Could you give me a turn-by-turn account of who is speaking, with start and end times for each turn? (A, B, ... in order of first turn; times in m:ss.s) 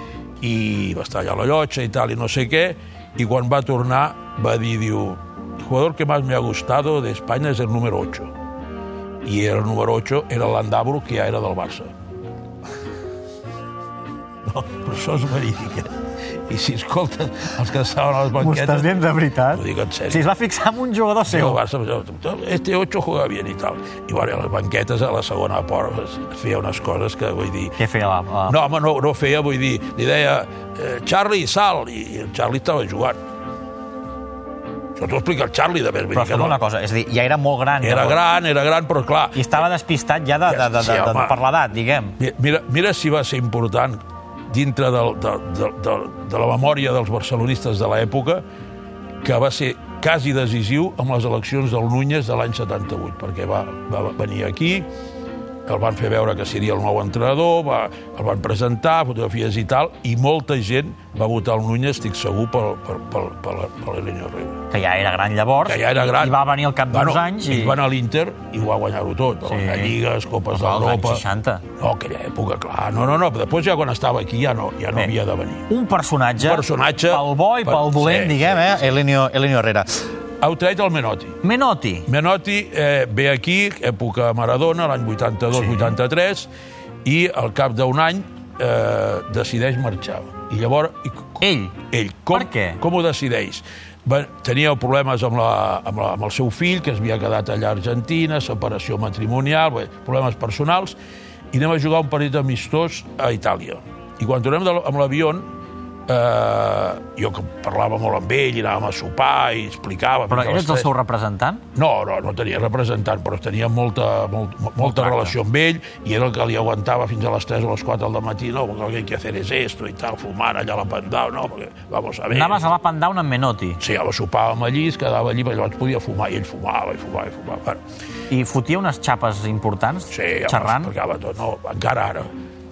0:00.4-0:08.3 A
0:09.2-0:11.9 A
0:14.4-0:15.9 A
0:16.5-0:19.0 A
0:18.4-0:21.6 B
0:19.5-0:20.2 A
0:21.2-0:27.8 A
0:27.8-0:28.6 B
0:28.5-0:33.2 A
0:35.0-0:36.6 A
0:36.1-0:38.2 B
0:37.8-0:39.7 A
0:39.3-0:42.2 B
0:40.5-0:41.4 A
0:42.2-0:48.4 A
0:49.2-0:54.9 A
0:55.7-1:04.6 A
1:04.7-1:07.8 B
1:05.6-1:11.2 A
1:09.4-1:09.9 B
1:10.5-1:11.6 B
1:11.8-1:15.7 A
1:15.7-1:20.0 B
1:16.4-1:18.8 A
1:20.4-1:21.4 A
1:21.4-1:22.1 B
1:22.1-1:26.5 A
1:25.5-1:25.9 B
1:27.0-1:41.0 A
1:31.4-1:31.7 B
1:32.3-1:32.8 B
1:41.5-1:45.5 A
1:46.1-1:50.9 A
1:50.3-1:51.6 B
1:51.7-2:02.7 A
1:54.8-1:55.4 B
2:02.3-2:03.8 B
2:03.8-2:07.8 A
2:08.3-2:10.9 B
2:10.1-2:12.3 A